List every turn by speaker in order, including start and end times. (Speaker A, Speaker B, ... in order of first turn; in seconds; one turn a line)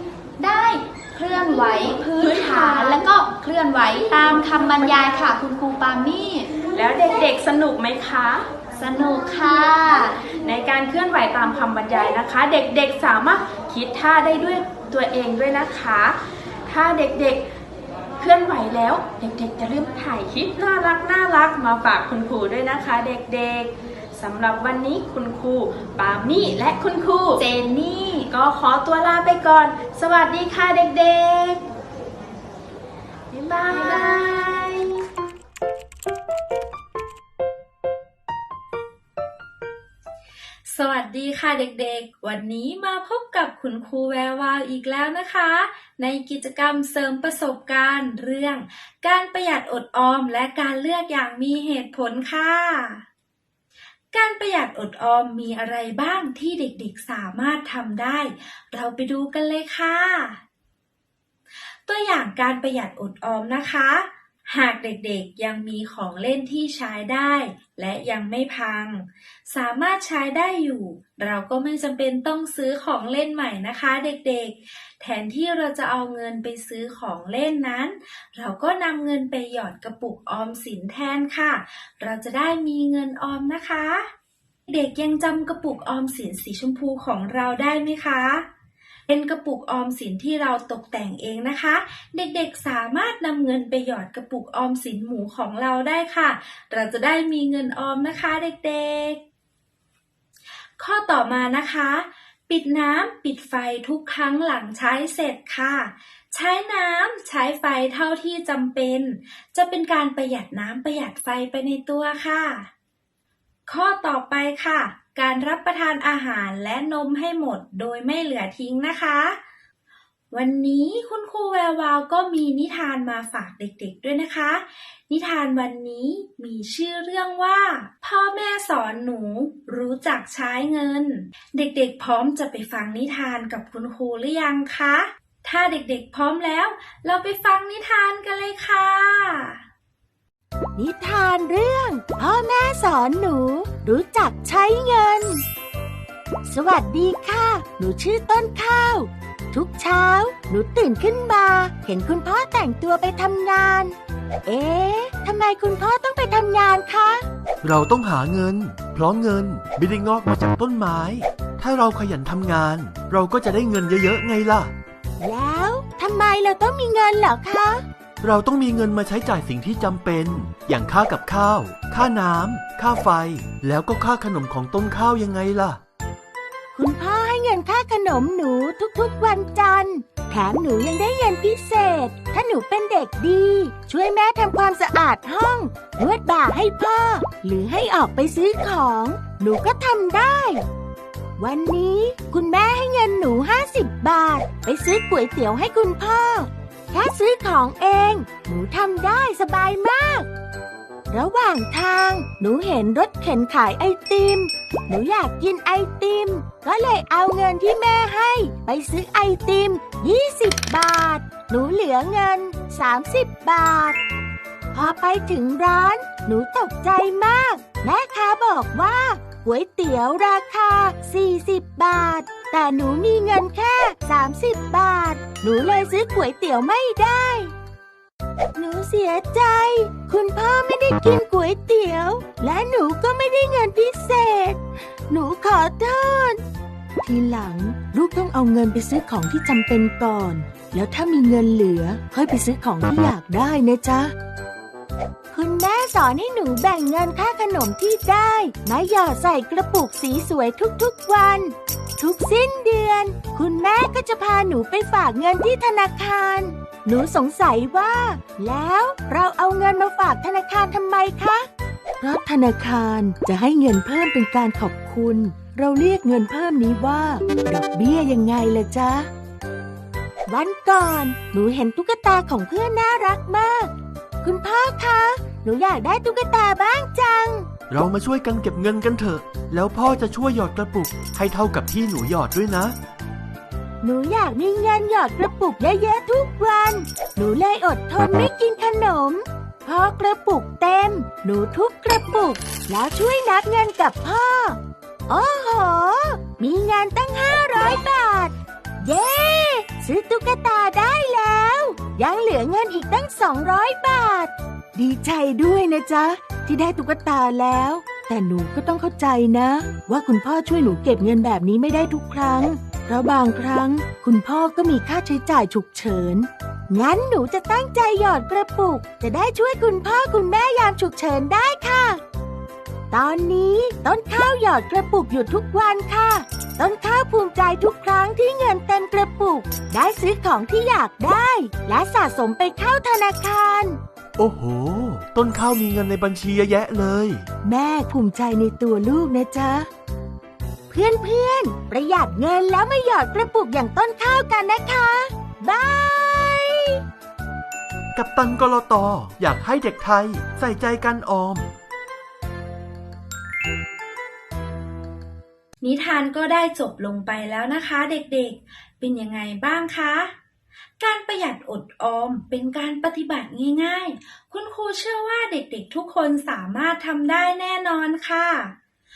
Speaker A: 0.4-6.5
Speaker B: 2.1-3.0
Speaker B: 6.7-8.5
Speaker A: 8.8-10.2
Speaker B: 10.4-17.4
Speaker B: 18.2-27.4
Speaker A: 27.4-28.3
Speaker B: 28.3-31.6
Speaker B: 33.3-35.0
Speaker C: 40.7-53.0
Speaker C: 54.1-60.4
Speaker C: 61.9-84.1
Speaker C: 84.7-88.5
Speaker C: 89.1-99.2
Speaker C: 100.8-112.7
Speaker C: 113.7-119.4
Speaker C: 120.3-139.6
Speaker D: 140.8-145.4
Speaker D: 146.4-157.2
Speaker E: 157.6-164.7
Speaker D: 165.2-167.8
Speaker E: 168.2-175.8
Speaker D: 176.7-190.7
Speaker D: 191.4-200.3
Speaker D: 201.1-214.0
Speaker D: 214.7-227.5
Speaker D: 228.6-236.4
Speaker D: 237.0-244.1
Speaker D: 245.3-261.5
Speaker D: 262.0-269.1
Speaker D: 270.3-277.5
Speaker E: 277.7-282.8
Speaker D: 283.8-322.0
Speaker D: 322.9-333.8
Speaker E: 334.2-337.3
Speaker D: 337.4-339.7
Speaker D: 340.7-346.8
Speaker E: 347.9-351.5
Speaker C: 355.6-360.1
Speaker C: 360.8-368.6